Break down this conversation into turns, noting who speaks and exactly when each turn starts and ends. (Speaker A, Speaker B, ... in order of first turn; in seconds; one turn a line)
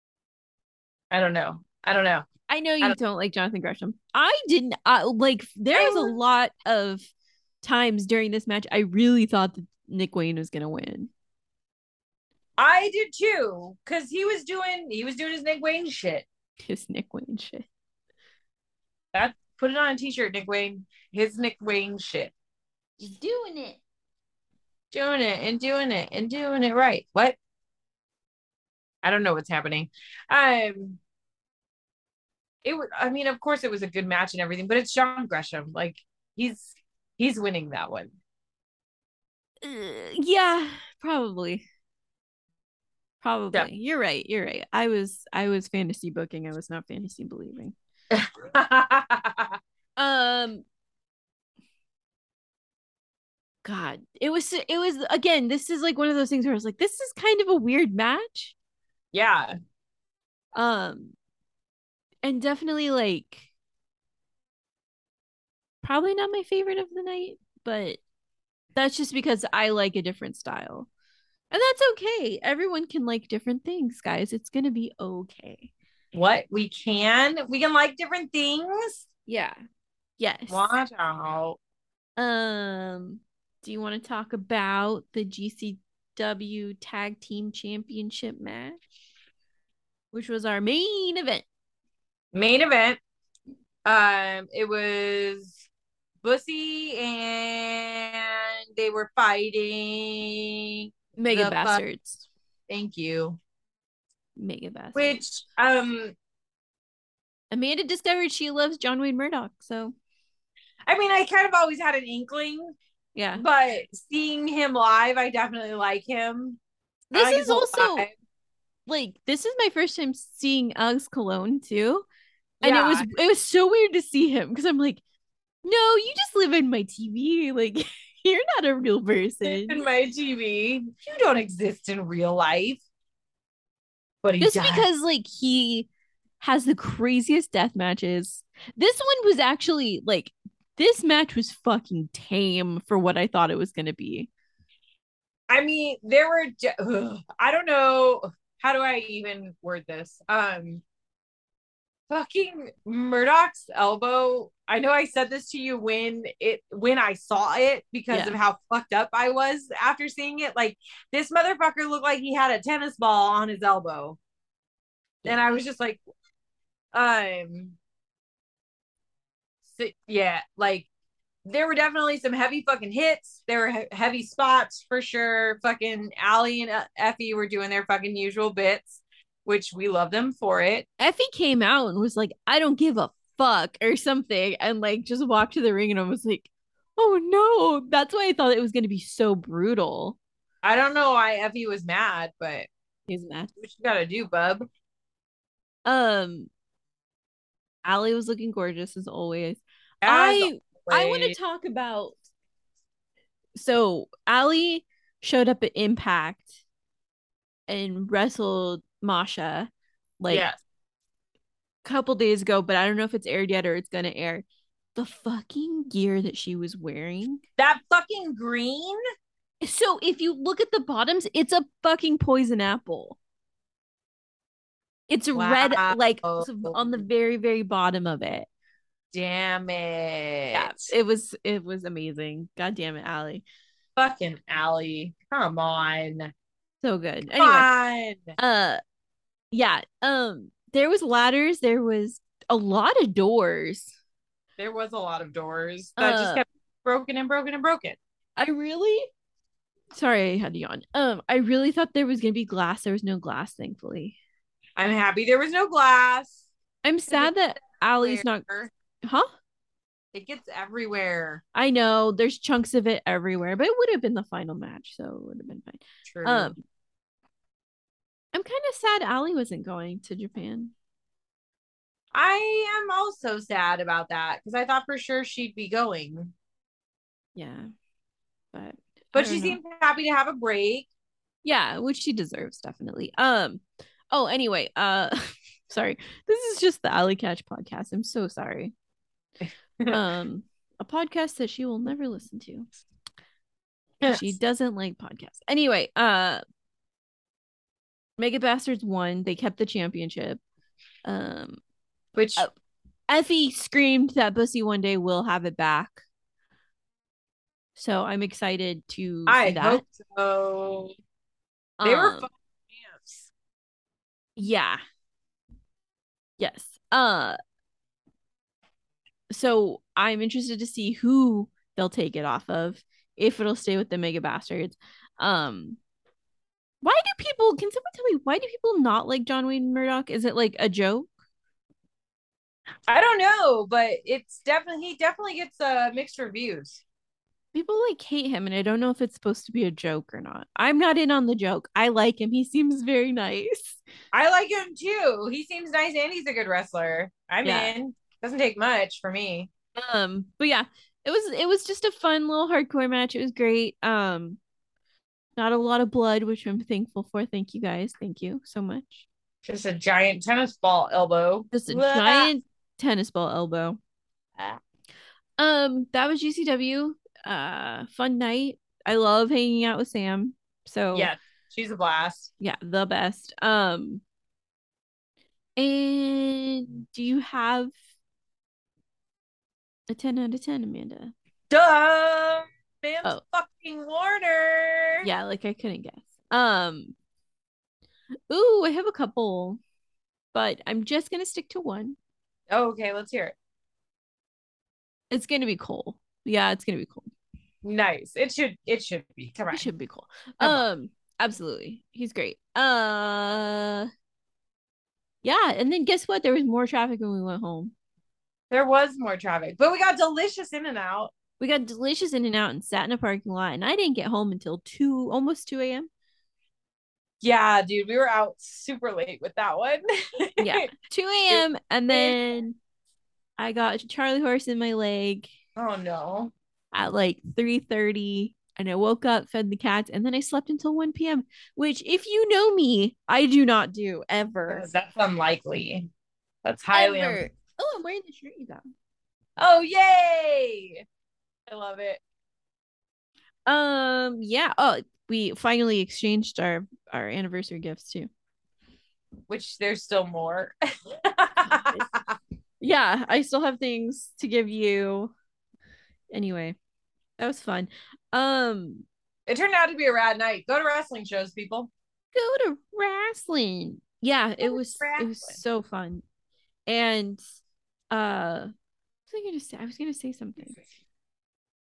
Speaker A: 1.1-2.3
Speaker B: 2.5-7.1
Speaker A: 5.7-6.2
Speaker B: 7.6-11.1
Speaker A: 12.6-16.3
Speaker B: 16.6-17.7
Speaker A: 19.1-22.3
Speaker B: 23.0-23.8
Speaker A: 24.9-27.4
Speaker A: 29.0-31.0
Speaker A: 32.6-38.1
Speaker B: 39.6-41.6
Speaker B: 43.2-47.8
Speaker A: 48.1-49.5
Speaker B: 50.0-50.6
Speaker B: 53.6-58.5
Speaker A: 59.1-59.5
Speaker B: 60.5-61.1
Speaker B: 62.2-63.5
Speaker B: 65.8-68.0
Speaker B: 68.8-70.9
Speaker B: 71.5-75.7
Speaker A: 76.1-79.1
Speaker B: 79.3-79.6
Speaker B: 80.2-80.7
Speaker A: 80.5-81.6
Speaker B: 82.2-88.8
Speaker B: 90.1-91.5
Speaker A: 92.3-93.0
Speaker A: 93.8-95.6
Speaker A: 96.2-101.8
Speaker B: 101.2-102.3
Speaker A: 102.7-103.4
Speaker B: 104.4-105.2
Speaker A: 105.0-106.2
Speaker B: 107.5-110.0
Speaker A: 110.9-112.8
Speaker B: 113.2-113.4
Speaker A: 113.4-116.6
Speaker B: 117.1-118.1
Speaker A: 117.1-118.1
Speaker B: 118.9-122.0
Speaker A: 122.6-123.1
Speaker B: 122.6-125.0
Speaker B: 125.6-129.8
Speaker A: 129.4-132.8
Speaker A: 134.2-134.9
Speaker B: 134.4-135.9
Speaker B: 136.4-144.3
Speaker A: 145.5-150.8
Speaker A: 152.1-164.2
Speaker B: 158.1-158.4
Speaker A: 165.2-166.0
Speaker A: 166.9-167.8
Speaker A: 169.7-170.9
Speaker A: 171.4-180.9
Speaker B: 181.0-190.2
Speaker A: 190.6-192.7
Speaker B: 193.1-193.5
Speaker A: 193.6-194.7
Speaker B: 195.9-196.5
Speaker B: 197.8-202.2
Speaker A: 200.0-201.4
Speaker B: 203.6-206.5
Speaker B: 207.7-210.5
Speaker A: 210.3-210.6
Speaker B: 211.8-217.4
Speaker A: 217.6-219.0
Speaker B: 219.6-223.2
Speaker B: 225.1-228.5
Speaker A: 225.3-227.0
Speaker A: 229.1-230.9
Speaker B: 230.5-233.4
Speaker A: 234.0-236.3
Speaker B: 236.8-237.7
Speaker A: 237.4-238.3
Speaker B: 238.4-238.8
Speaker B: 239.5-243.9
Speaker A: 244.6-248.0
Speaker B: 246.0-246.4
Speaker B: 248.4-249.1
Speaker B: 249.9-254.2
Speaker A: 254.8-256.5
Speaker B: 256.8-258.5
Speaker A: 257.1-258.7
Speaker B: 259.0-259.3
Speaker A: 260.1-261.4
Speaker B: 261.6-266.6
Speaker A: 266.1-266.6
Speaker B: 268.3-270.7
Speaker A: 272.1-276.3
Speaker B: 277.4-277.7
Speaker B: 278.5-279.6
Speaker A: 279.1-280.9
Speaker B: 281.4-288.7
Speaker B: 289.9-292.7
Speaker A: 294.0-294.4
Speaker B: 294.1-296.4
Speaker B: 298.2-300.4
Speaker B: 301.1-301.6
Speaker A: 302.2-302.5
Speaker B: 303.1-306.0
Speaker B: 307.8-309.8
Speaker A: 309.3-310.9
Speaker B: 311.8-312.3
Speaker A: 311.8-313.3
Speaker B: 314.4-314.8
Speaker B: 316.4-317.4
Speaker B: 319.3-325.8
Speaker B: 326.8-331.1
Speaker A: 332.9-336.8
Speaker B: 337.5-343.8
Speaker A: 344.1-349.5
Speaker B: 347.4-347.8
Speaker B: 349.8-354.4
Speaker B: 355.4-359.1
Speaker A: 359.4-362.3
Speaker B: 361.5-363.8
Speaker B: 365.4-371.1
Speaker A: 370.9-372.3
Speaker B: 372.4-374.0
Speaker B: 375.6-377.7
Speaker B: 379.9-381.1
Speaker A: 381.5-385.1
Speaker B: 385.0-386.9
Speaker B: 388.3-389.6
Speaker B: 390.3-392.0
Speaker A: 392.5-393.4
Speaker B: 395.1-397.1
Speaker A: 397.6-399.7
Speaker B: 399.5-403.9
Speaker A: 400.4-400.7
Speaker B: 405.2-407.7
Speaker A: 408.5-411.1
Speaker B: 411.4-415.9
Speaker A: 417.2-420.7
Speaker B: 420.4-422.6
Speaker A: 421.3-422.2
Speaker B: 423.4-425.3
Speaker A: 425.6-426.3
Speaker B: 426.7-434.7
Speaker A: 434.5-435.9
Speaker A: 436.4-437.2
Speaker B: 436.7-438.6
Speaker A: 439.4-440.8
Speaker A: 441.5-442.0
Speaker B: 443.5-448.1
Speaker A: 449.3-452.1
Speaker B: 451.5-451.9
Speaker B: 452.6-455.1
Speaker B: 456.1-456.6
Speaker B: 457.2-458.9
Speaker A: 459.3-461.7
Speaker B: 462.1-466.0
Speaker A: 464.4-465.4
Speaker B: 466.7-467.2
Speaker B: 467.9-468.5
Speaker B: 469.1-470.6